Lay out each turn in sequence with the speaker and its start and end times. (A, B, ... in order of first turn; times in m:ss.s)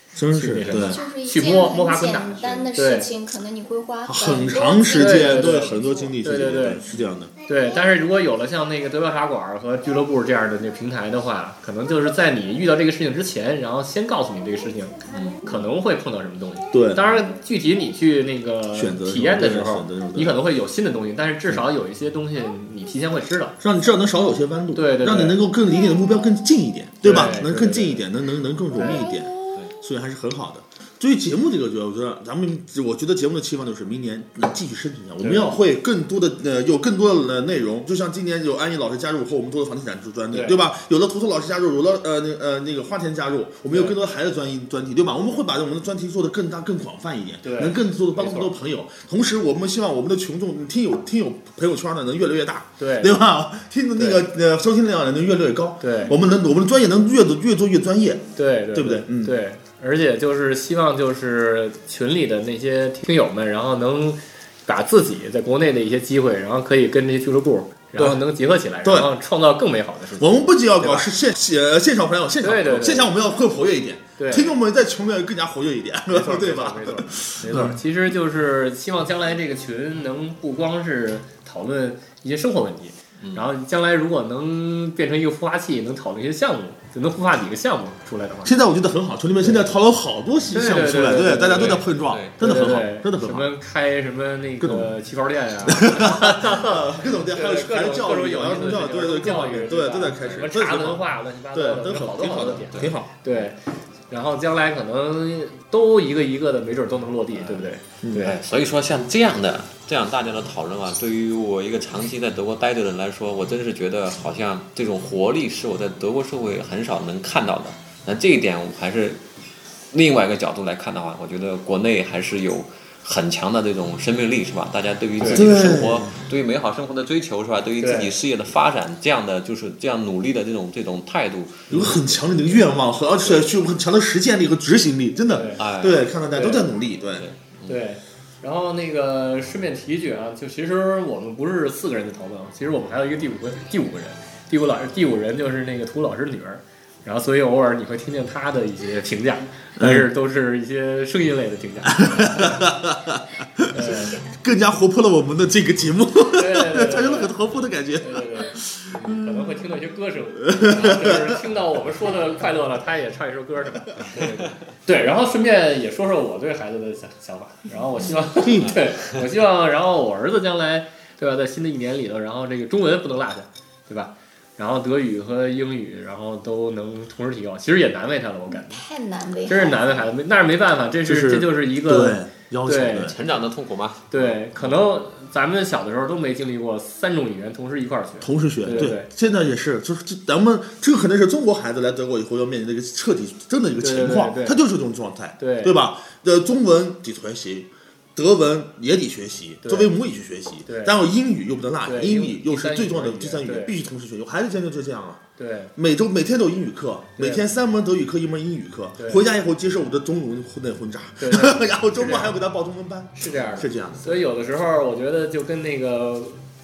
0:00.1-0:01.0 A
0:00.3-0:03.1 B
0:00.7-0:06.1 C
0:04.0-0:07.3 A
0:05.0-0:06.8 B
0:07.4-0:23.6 B
0:15.1-0:15.4 D
0:16.7-0:17.2 A
0:18.7-0:20.4 A
0:23.6-0:59.3 A
0:24.7-0:25.4 B
0:27.0-0:28.0 B
0:28.7-0:29.0 B
0:35.2-0:35.6 B
0:40.3-0:40.6 B
0:43.7-0:44.0 B
0:47.4-0:48.5 B
0:52.8-0:53.2 B
0:53.9-0:54.3 B
0:55.8-0:56.2 B
0:58.4-1:11.0 B
1:08.8-1:09.1 A
1:10.2-1:17.8 A
1:12.4-1:13.2 B
1:14.2-1:14.5 B
1:16.1-1:28.5 B
1:23.2-1:23.5 D
1:28.4-1:33.5 A
1:29.4-1:29.7 B
1:30.5-1:43.6 B
1:31.6-1:32.8 D
1:34.6-1:34.9 A
1:35.6-1:43.1 A
1:42.4-1:43.0 D
1:44.1-1:48.4 B
1:47.3-1:59.2 D
1:48.0-1:48.3 A
1:59.9-2:12.6 D
2:05.2-2:05.5 B
2:05.3-2:06.1 A
2:07.8-2:08.1 B
2:11.7-2:12.0 B
2:11.7-2:17.3 A
2:13.2-2:13.5 D
2:15.3-2:15.6 B
2:15.6-2:16.1 D
2:16.3-2:16.7 B
2:17.2-2:17.8 D
2:17.7-2:32.7 B
2:29.8-2:30.1 A
2:31.9-2:39.0 A
2:33.7-2:34.2 B
2:36.3-2:37.4 B
2:38.0-2:58.8 B
2:40.4-2:41.3 A
2:48.3-2:48.8 A
2:58.5-2:59.9 C
2:59.5-3:03.1 B
3:01.0-3:03.2 A
3:03.0-3:04.7 D
3:04.1-3:09.1 B
3:08.2-3:25.2 A
3:13.8-3:14.6 B
3:15.4-3:15.8 B
3:19.6-3:20.0 B
3:20.6-3:20.9 B
3:21.8-3:23.8 B
3:25.4-3:25.7 B
3:25.8-3:34.2 A
3:27.2-3:27.5 B
3:29.0-3:29.2 B
3:31.2-3:32.4 B
3:33.1-3:36.4 B